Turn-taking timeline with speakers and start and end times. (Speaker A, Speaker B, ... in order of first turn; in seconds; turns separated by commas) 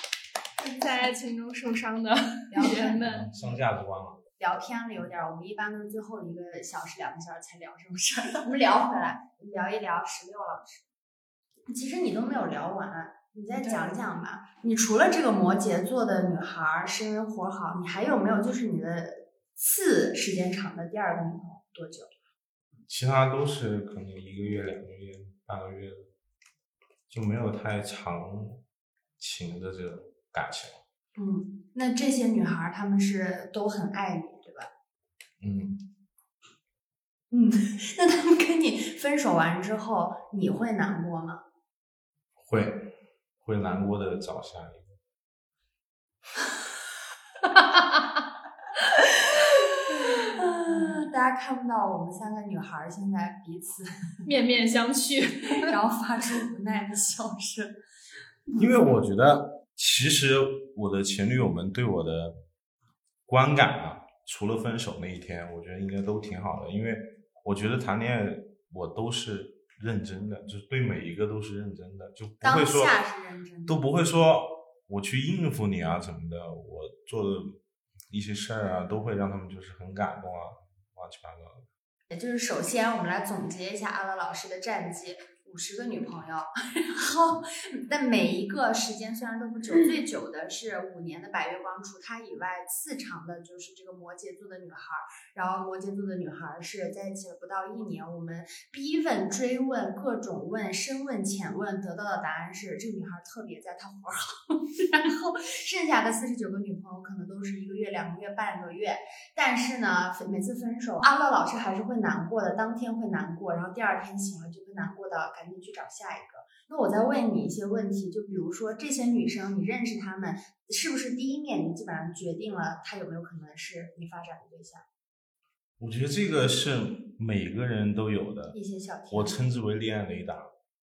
Speaker A: 0.6-3.3, Speaker B: 2.5-3.5, Speaker C: 3.0-4.2, Speaker B: 4.4-10.8, Speaker B: 11.7-22.1, Speaker C: 22.9-26.1, Speaker C: 27.1-28.6, Speaker C: 29.2-30.8, Speaker B: 31.1-34.7, Speaker C: 35.4-35.8, Speaker B: 37.3-41.4, Speaker C: 42.4-42.9, Speaker C: 43.4-44.9, Speaker B: 49.9-54.2, Speaker A: 54.2-55.7, Speaker B: 55.5-57.8, Speaker C: 58.6-62.4, Speaker C: 63.3-73.0, Speaker B: 72.4-73.8, Speaker C: 73.7-77.6, Speaker C: 78.1-81.7, Speaker B: 82.1-124.8, Speaker C: 125.8-128.6, Speaker B: 128.5-129.3, Speaker C: 129.1-130.5